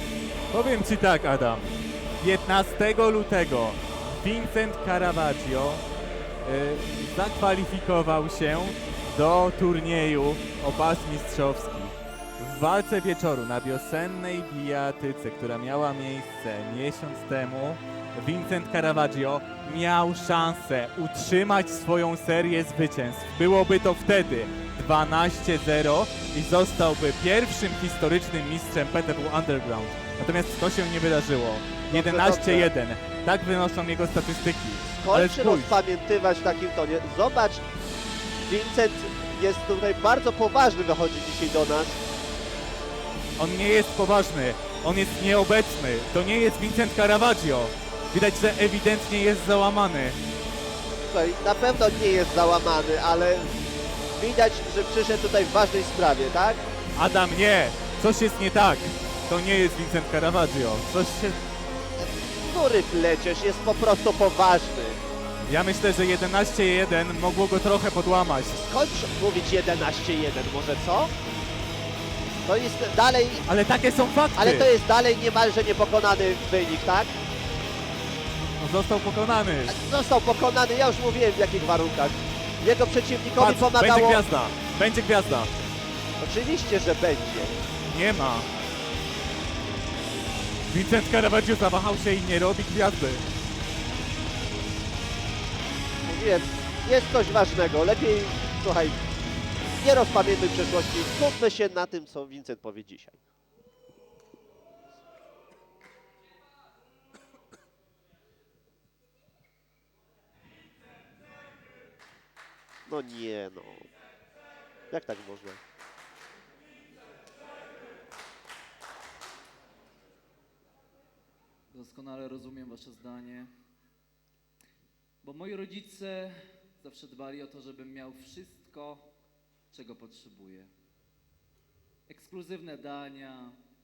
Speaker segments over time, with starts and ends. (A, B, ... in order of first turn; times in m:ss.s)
0:00.5-0:05.8 A
0:06.4-0:35.7 A
0:31.9-0:32.7 B
0:35.0-0:37.6 B
0:38.5-0:42.0 B
0:43.4-0:50.2 A
0:51.1-0:53.5 B
0:54.2-0:56.6 B
0:57.0-1:01.4 A
1:02.0-1:05.0 B
1:05.5-1:08.6 A
1:08.6-1:11.1 B
1:12.4-1:13.5 B
1:13.5-1:14.7 A
1:14.4-1:17.2 B
1:18.6-1:19.7 A
1:19.7-1:24.2 B
1:23.4-1:25.5 A
1:26.2-1:27.6 B
1:27.9-1:28.5 A
1:30.7-1:33.2 A
1:36.0-1:39.0 B
1:39.8-1:43.2 B
1:52.9-1:53.9 B
1:54.9-1:55.6 B
2:01.7-2:03.5 C
2:05.2-2:09.1 C
2:09.7-2:10.7 C
2:12.1-2:13.6 C